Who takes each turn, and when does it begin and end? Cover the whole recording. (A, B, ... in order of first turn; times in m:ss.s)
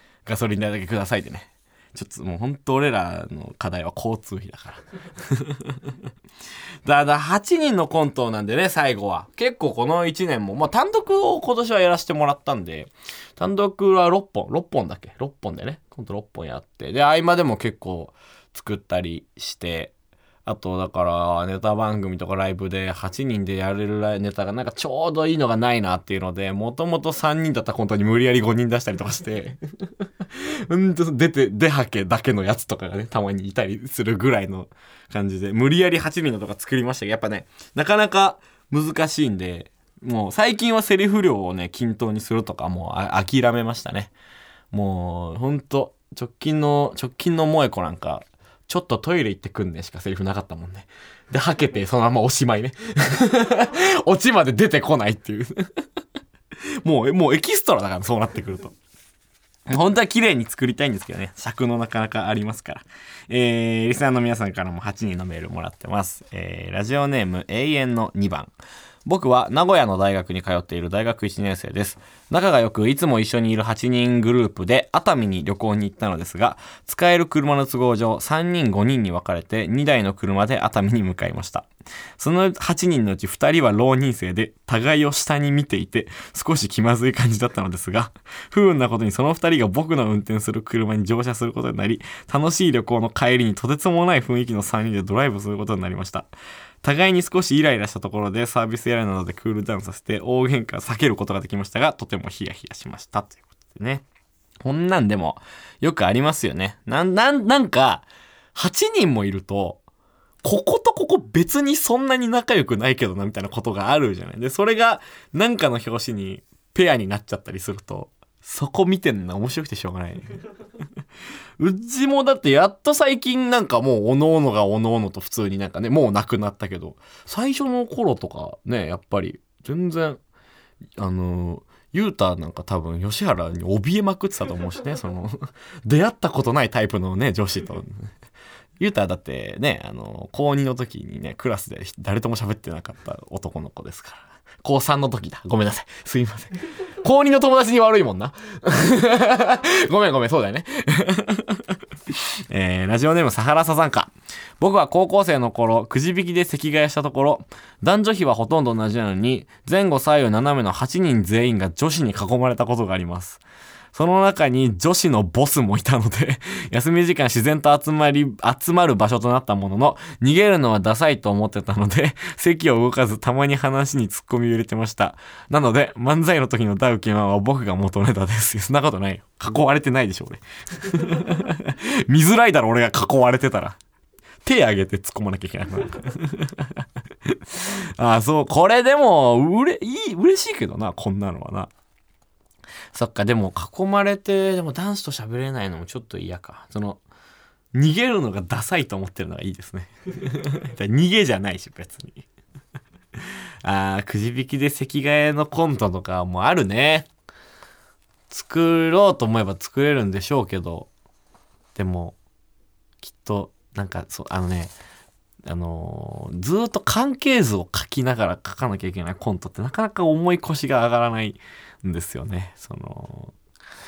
0:00.2-0:05.8 A
0:06.8-0:19.9 A
0:20.4-0:29.6 A
0:30.3-0:44.1 A
0:44.7-0:55.7 A
0:56.8-0:58.7 A
0:59.7-1:08.5 A
1:09.0-1:21.7 A
1:22.2-1:36.3 A
1:36.8-1:44.0 A
1:44.6-1:49.8 A
1:50.4-2:00.4 A
2:01.6-2:10.2 A
2:11.0-2:18.1 A
2:18.8-2:31.8 A
2:32.5-2:43.4 A
2:43.9-3:03.8 A
3:04.4-3:11.7 A
3:12.9-3:17.0 A
3:17.7-3:22.2 A
3:23.6-3:27.1 A
3:28.3-3:30.9 A
3:31.7-3:32.1 A
3:33.0-3:34.7 A
3:35.4-3:43.3 A